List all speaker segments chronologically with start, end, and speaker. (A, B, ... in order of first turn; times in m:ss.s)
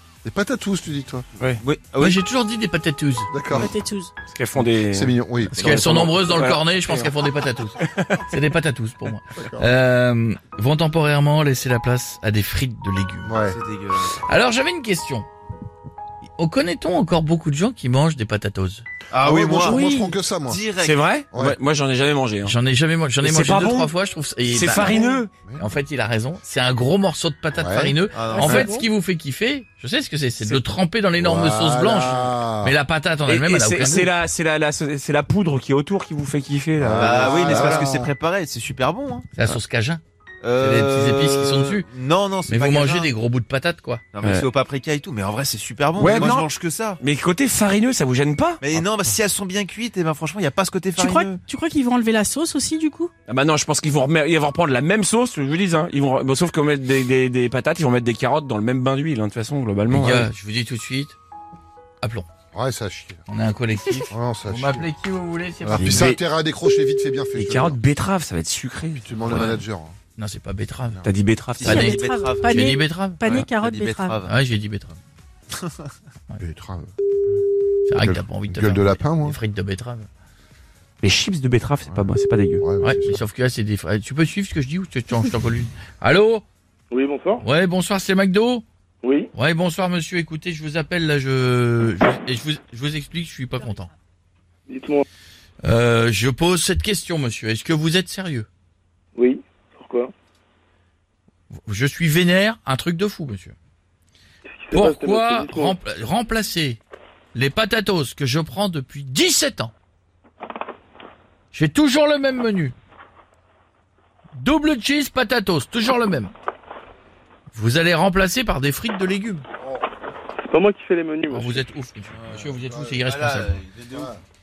0:00.2-0:01.2 A
0:01.4-0:02.2 B
0:02.0-0:03.3 C
0:03.3-0:03.8 A
0:03.5-0:04.1 D
0:04.3-0:07.1 E
0:04.9-0:05.8 A
0:05.4-0:07.8 C
0:07.8-0:08.2 E
0:08.3-0:13.4 C
0:09.4-0:09.7 A
0:13.2-0:13.6 A
0:13.5-0:14.1 B
0:14.2-0:15.3 C
0:16.4-0:18.8 C
0:19.1-0:19.9 B
0:19.2-0:20.6 A
0:19.3-0:20.1 E
0:20.4-0:21.2 B
0:20.8-0:22.6 E
0:22.4-0:34.1 C
0:23.2-0:23.9 E
0:24.5-0:25.3 E
0:25.3-0:25.6 A
0:27.5-0:28.0 A
0:28.1-0:28.7 B
0:28.3-0:28.9 D
0:31.2-0:32.7 A
0:33.3-0:37.8 E
0:36.8-0:38.1 A
0:37.0-0:39.3 B
0:39.3-0:40.0 C
0:40.4-0:43.1 B
0:40.6-0:41.9 C
0:42.5-0:44.0 C
0:44.1-0:47.0 B
0:44.2-0:44.5 E
0:46.0-0:48.8 E
0:48.6-0:51.4 B
0:51.0-0:53.1 D
0:53.3-1:00.3 E
0:59.9-1:01.2 C
1:02.0-1:02.3 C
1:02.5-1:03.2 A
1:03.3-1:06.1 C
1:04.1-1:04.9 A
1:05.6-1:07.8 A
1:05.7-1:06.2 E
1:07.3-1:09.6 E
1:09.0-1:10.0 A
1:09.3-1:09.6 C
1:10.2-1:11.0 C
1:11.0-1:11.8 E
1:11.6-1:12.8 B
1:11.6-1:14.2 D
1:11.7-1:13.2 C
1:13.6-1:14.3 B
1:14.2-1:15.0 C
1:16.4-1:16.9 A
1:17.9-1:20.1 C
1:18.0-1:19.4 A
1:21.0-1:22.6 E
1:21.9-1:23.2 A
1:22.8-1:26.4 C
1:26.9-1:27.4 F
1:27.4-1:28.6 C
1:29.0-1:29.3 F
1:29.3-1:33.9 C
1:34.7-1:35.0 F
1:35.6-1:38.5 C
1:39.2-1:40.1 F
1:41.6-1:43.6 C
1:44.5-1:45.8 F
1:44.7-1:46.8 C
1:47.3-1:49.7 C
1:51.5-1:52.7 C
1:54.3-1:56.3 C
1:57.5-1:59.4 C
2:00.4-2:01.6 F
2:01.3-2:03.6 C
2:02.1-2:04.1 B
2:02.7-2:03.0 A